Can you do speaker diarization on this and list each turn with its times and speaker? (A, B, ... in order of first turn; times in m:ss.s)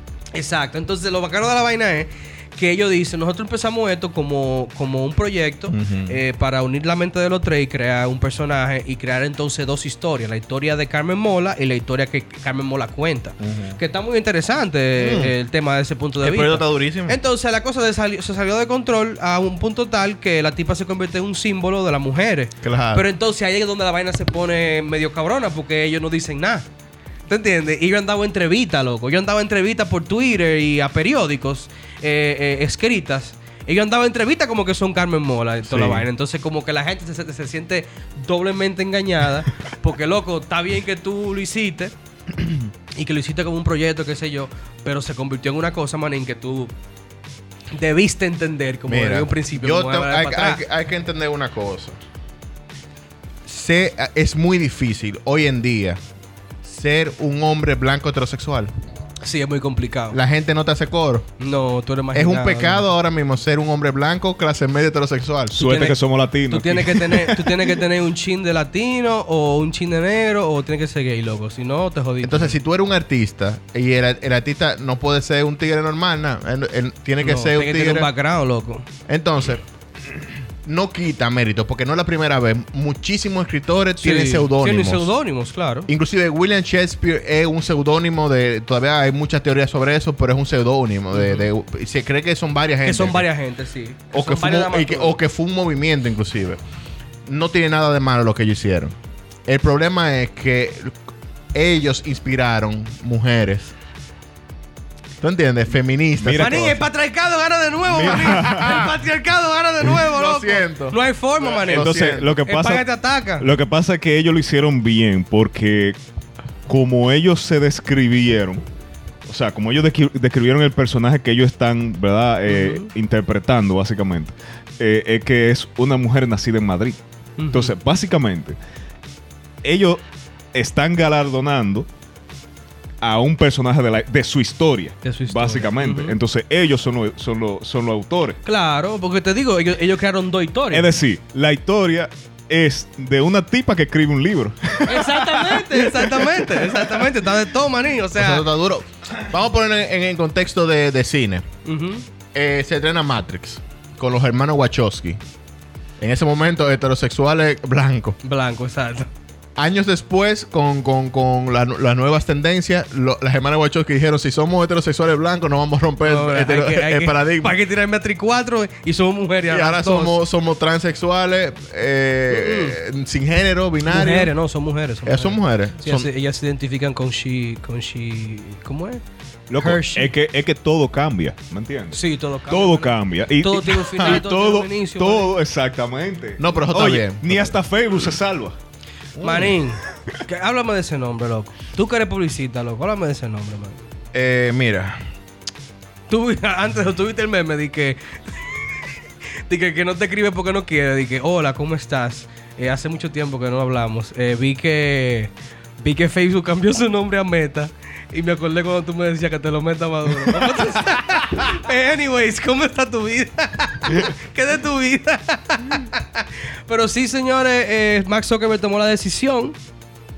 0:00.3-0:26.7 A
0:05.7-0:06.2 B
0:13.4-0:13.8 B
0:15.0-0:15.3 B
0:16.2-0:17.2 B
0:22.6-0:23.0 B
0:27.3-0:41.9 A
0:35.7-0:36.0 B
0:43.0-0:46.7 A
0:47.7-0:50.6 A
0:48.9-0:52.0 B
0:53.5-0:56.0 B
0:56.6-0:58.7 B
0:59.2-1:00.2 A
1:00.1-1:01.3 B
1:01.4-1:02.9 A
1:02.1-1:05.6 B
1:05.5-1:07.8 C
1:05.6-1:12.6 A
1:12.2-1:18.1 B
1:17.2-1:18.9 A
1:19.1-1:19.6 B
1:20.6-1:25.1 B
1:24.0-1:25.9 A
1:25.9-1:33.3 B
1:31.2-1:31.5 A
1:32.8-1:35.2 A
1:34.1-1:36.6 B
1:37.3-1:39.0 B
1:39.5-1:41.0 B
1:41.5-1:43.8 B
1:45.2-1:46.8 B
1:46.2-1:46.7 C
1:46.4-1:53.5 A
1:47.9-1:48.9 C
1:48.2-1:48.9 B
1:50.0-1:52.3 B
1:51.7-1:52.8 C
1:53.4-1:56.0 C
1:56.7-1:58.6 C
1:59.3-2:07.0 C
2:02.5-2:02.9 A
2:07.4-2:07.7 A
2:07.5-2:08.6 C
2:09.6-2:10.0 C
2:10.5-2:11.9 C
2:13.0-2:18.4 C
2:15.0-2:16.2 A
2:18.4-2:20.9 A
2:20.7-2:27.1 C
2:24.8-2:28.5 A
2:28.2-2:31.4 B
2:31.6-2:32.0 A
2:32.3-2:35.2 B
2:36.0-2:38.2 B
2:38.2-2:39.1 A
2:39.6-2:47.6 B
2:46.0-2:50.2 A
2:49.5-2:54.3 B
2:52.3-2:52.8 A
2:53.9-2:59.0 A
2:55.1-2:56.1 B
2:59.5-3:08.6 C
2:59.6-3:00.1 A
3:01.9-3:05.3 A
3:06.4-3:07.6 B
3:09.2-3:09.5 B
3:09.2-3:13.8 A
3:14.1-3:15.0 B
3:16.1-3:18.6 A
3:19.5-3:39.6 A